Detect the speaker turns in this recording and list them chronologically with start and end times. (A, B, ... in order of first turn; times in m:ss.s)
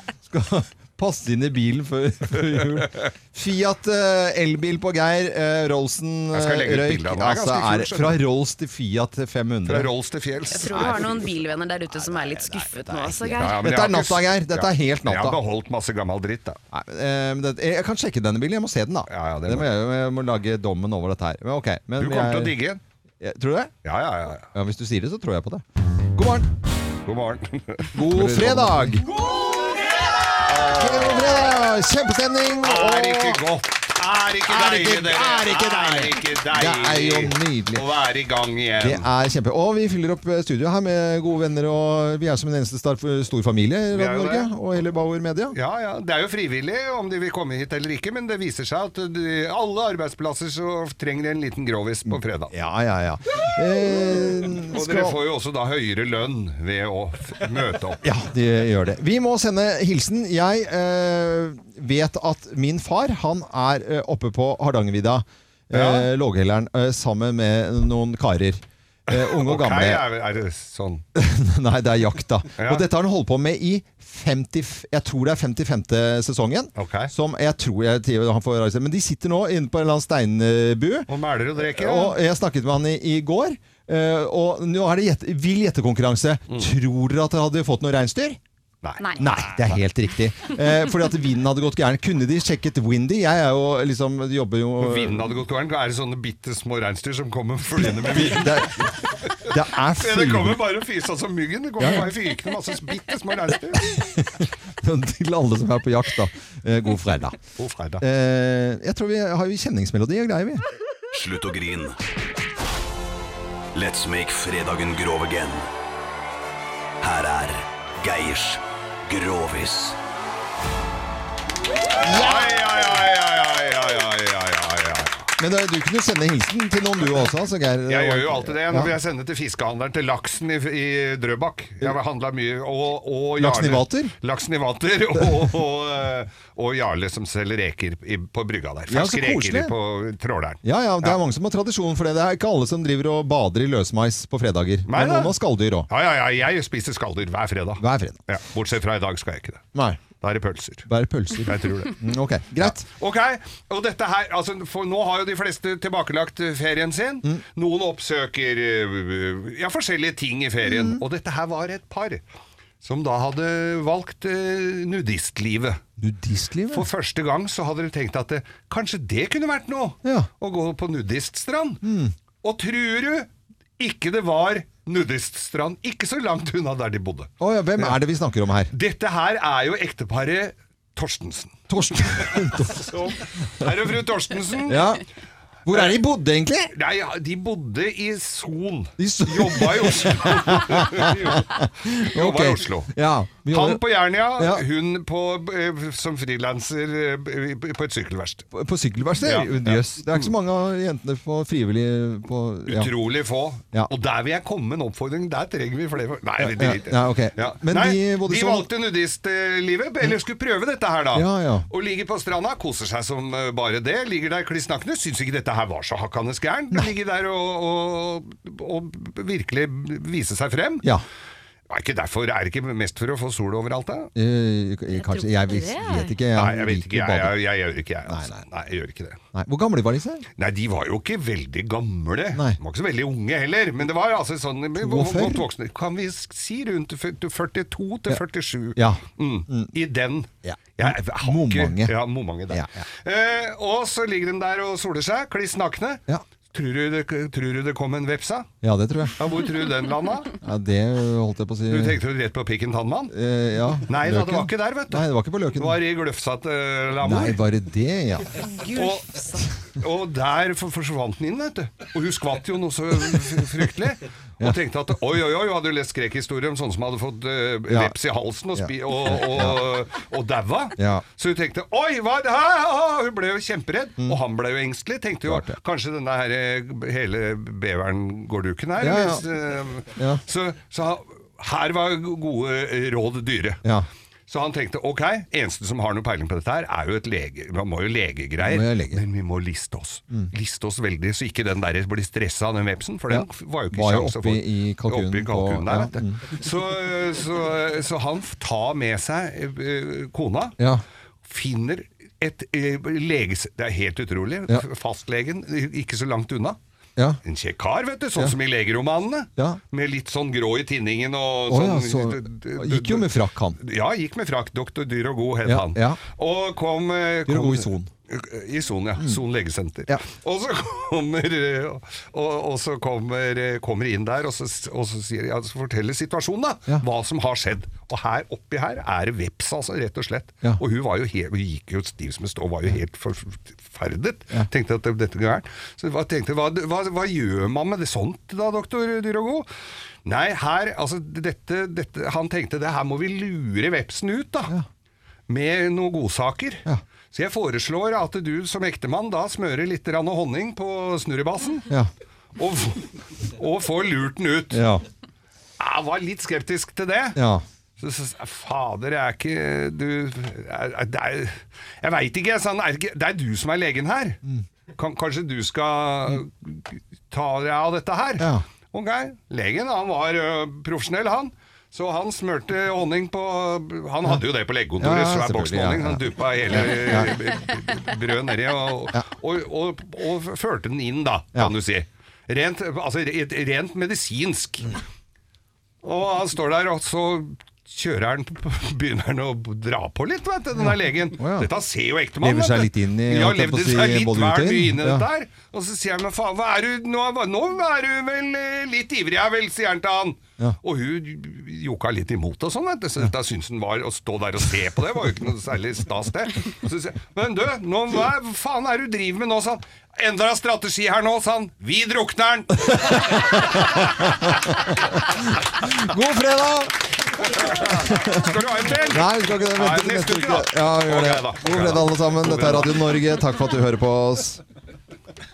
0:00.2-0:09.9 A
0:06.3-0:08.2 B
0:09.6-0:11.2 B
0:10.5-0:13.5 C
0:10.8-0:11.1 A
0:11.9-0:15.4 A
0:13.4-0:16.6 B
0:16.7-0:22.5 A
0:19.1-0:19.7 B
0:22.0-0:22.8 B
0:23.2-0:23.7 A
0:23.8-0:24.4 B
0:24.5-0:25.6 A
0:26.1-0:26.5 A
0:27.0-0:28.5 B
0:27.9-0:29.1 A
0:30.4-0:31.4 B
0:30.6-0:33.4 A
0:32.6-0:39.0 B
0:34.5-0:37.8 A
0:38.8-0:45.6 A
0:43.9-0:44.5 B
0:45.5-0:52.5 B
0:52.1-0:55.2 A
0:54.6-0:58.0 B
0:58.0-1:10.0 A
1:05.7-1:06.1 B
1:09.1-1:11.0 B
1:11.1-1:28.4 A
1:12.6-1:12.8 B
1:16.8-1:17.1 B
1:21.1-1:22.2 B
1:28.8-1:29.8 B
1:29.2-1:35.4 A
1:34.8-1:39.4 B
1:37.8-1:40.6 A
1:39.9-1:44.2 B
1:41.8-1:42.1 A
1:43.8-1:47.4 A
1:47.6-1:48.0 B
1:48.0-1:50.6 A
1:51.1-1:52.0 D
1:53.7-1:55.7 D
1:57.0-2:00.0 D
2:02.0-2:05.3 B
2:02.0-2:02.4 A
2:05.4-2:08.9 A
2:07.9-2:21.2 B
2:13.4-2:14.1 A
2:18.9-2:19.7 A
2:20.6-2:25.9 A
2:24.9-2:25.3 B
2:25.9-2:29.6 B
2:27.8-2:28.2 A
2:29.7-2:30.0 A
2:30.2-2:30.9 B
2:30.9-2:32.8 A
2:31.4-2:32.0 B
2:32.6-2:42.2 B
2:40.6-2:41.0 A
2:42.8-2:45.8 B
2:46.0-2:46.9 A
2:46.7-2:51.8 B
2:50.0-2:50.3 A
2:51.8-2:52.1 A
2:52.4-2:58.0 B
2:57.4-2:58.7 A
2:58.7-3:04.9 B
3:01.7-3:03.7 A
3:04.6-3:05.0 A
3:05.6-3:06.7 A
3:05.7-3:06.0 B
3:06.7-3:18.5 B
3:09.0-3:14.6 A
3:18.5-3:22.9 A
3:19.2-3:20.3 B
3:22.6-3:40.9 B
3:26.4-3:28.7 A
3:31.1-3:31.7 A
3:41.7-3:44.1 B
3:44.1-3:47.4 A
3:44.9-3:46.1 C
3:46.3-3:49.2 B
3:48.0-3:48.4 A
3:49.3-3:50.2 A
3:50.4-4:06.0 B
3:52.3-3:52.6 A
3:54.8-3:55.5 A
3:58.7-3:59.7 A
4:00.4-4:02.0 A
4:02.5-4:02.8 A
4:06.5-4:08.5 B
4:08.6-4:09.2 A
4:09.2-4:10.3 B
4:10.4-4:12.0 A
4:11.7-4:13.1 B
4:13.1-4:15.8 A
4:13.9-4:17.4 B
4:17.0-4:18.5 A
4:18.6-4:19.2 B
4:19.8-4:43.6 B
4:27.7-4:28.0 A
4:28.5-4:29.6 A
4:30.8-4:31.0 A
4:35.3-4:35.6 A
4:38.8-4:39.2 A
4:40.0-4:40.2 A
4:44.3-5:00.6 B
4:48.4-4:49.0 A
4:53.1-4:56.3 A
5:01.2-5:06.6 B
5:07.2-5:39.5 B
5:11.5-5:13.6 A
5:15.4-5:16.0 A
5:17.3-5:17.9 A
5:40.0-5:44.5 B
5:45.3-5:51.6 B
5:52.4-5:54.6 B
5:54.5-5:54.8 A
5:55.6-5:57.2 B
5:57.2-5:57.4 A
5:57.8-6:04.2 B
6:04.7-6:24.8 B
6:08.2-6:08.4 A
6:14.8-6:17.2 A
6:25.8-6:53.8 B
6:30.6-6:31.5 A
6:32.2-6:35.1 A
6:53.1-6:54.4 A
6:55.5-6:57.0 A
6:57.2-7:02.8 B
6:57.6-6:58.3 A
6:58.9-7:04.4 A